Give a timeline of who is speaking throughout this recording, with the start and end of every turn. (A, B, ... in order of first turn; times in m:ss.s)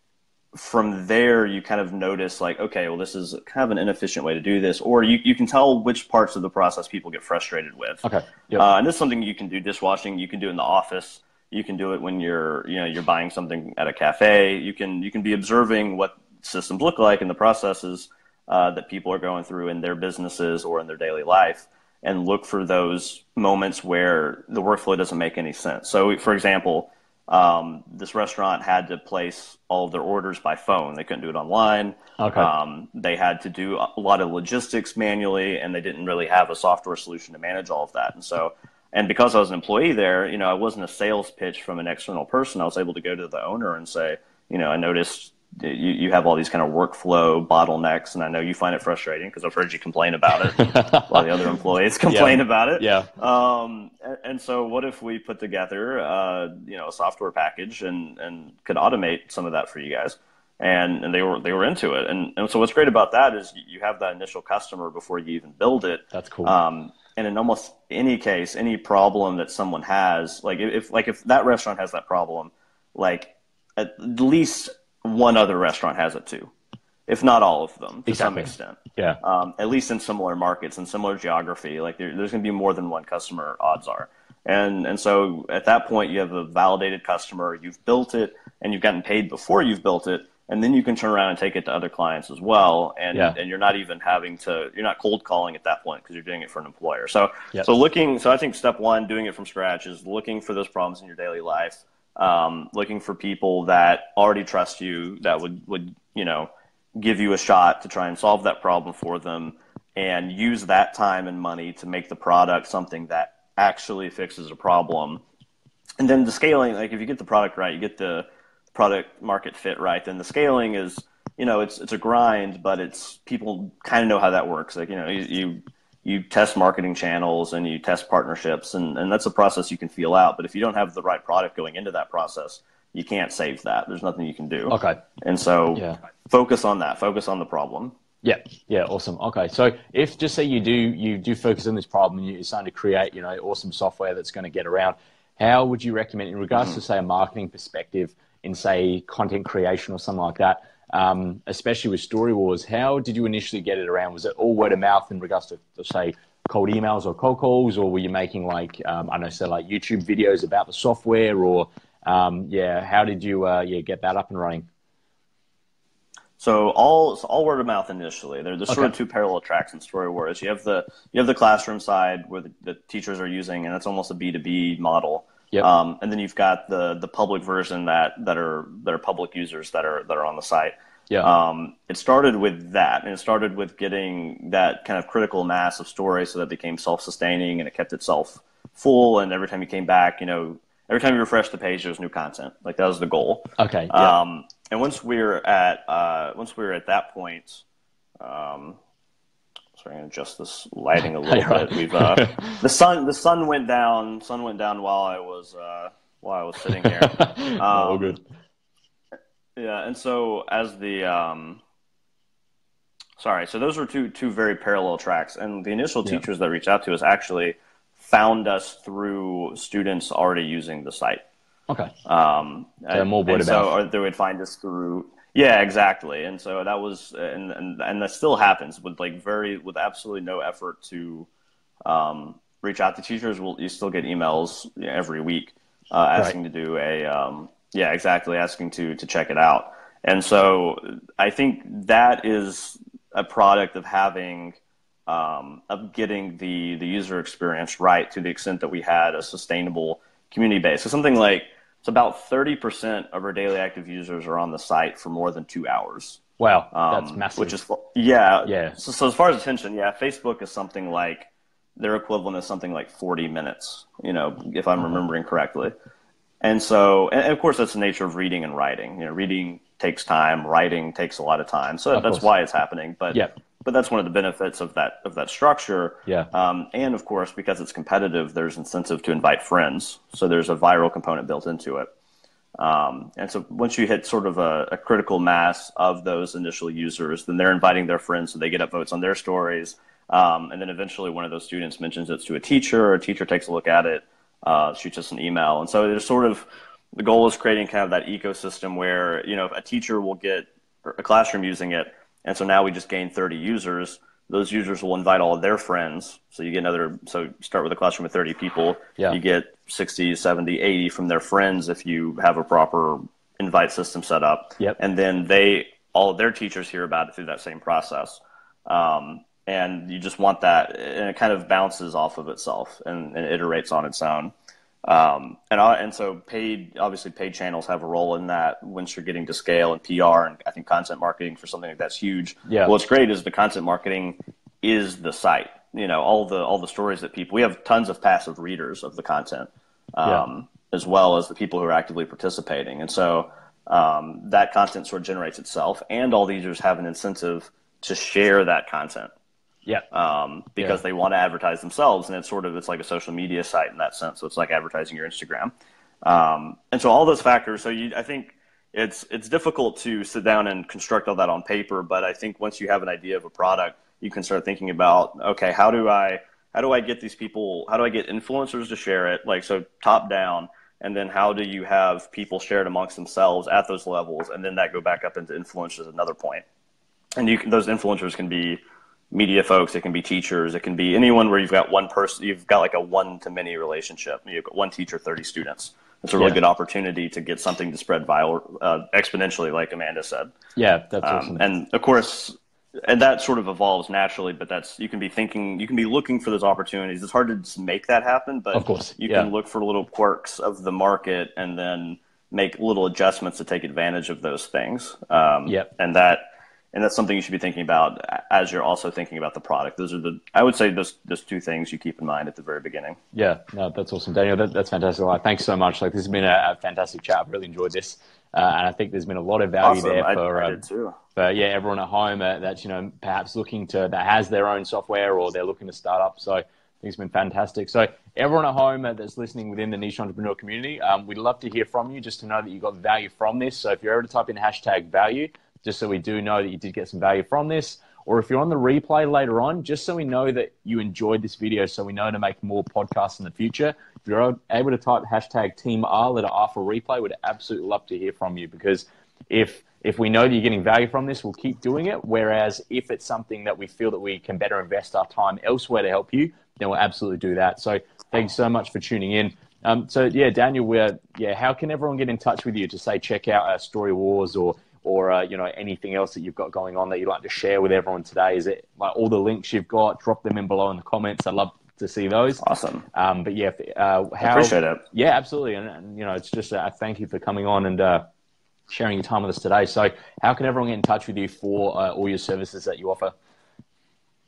0:00.5-1:16.5 A
0:08.0-0:08.6 B
0:32.2-0:32.5 B
0:50.6-0:51.3 B
0:52.1-0:53.1 B
1:06.1-1:06.5 B
1:17.1-1:55.2 A
1:18.1-1:19.2 B
1:56.0-2:18.0 A
2:14.7-2:15.0 B
2:18.2-2:44.7 B
2:46.4-3:17.6 A
3:13.6-3:14.2 B
3:18.2-3:18.8 A
3:19.8-3:28.2 A
3:21.2-3:22.6 B
3:26.7-3:28.2 B
3:29.6-3:31.6 A
3:33.2-3:41.2 A
3:42.0-3:51.3 A
3:42.9-3:43.7 B
3:51.8-4:25.7 A
4:16.4-4:17.6 B
4:18.4-4:18.8 B
4:26.4-4:41.9 A
4:31.9-4:32.3 B
4:42.6-5:24.3 A
5:24.8-5:49.1 A
5:32.4-5:32.7 B
5:49.9-6:16.4 A
6:17.2-6:18.6 A
6:19.1-6:30.3 A
6:30.6-6:31.4 B
6:31.0-6:32.4 A
6:32.9-6:53.0 A
6:38.5-6:39.3 B
6:53.1-7:00.6 B
6:59.6-7:01.0 A
7:01.2-7:52.4 B
7:52.4-7:52.8 A
7:52.9-7:58.0 B
7:54.2-7:54.8 A
7:58.7-8:03.1 B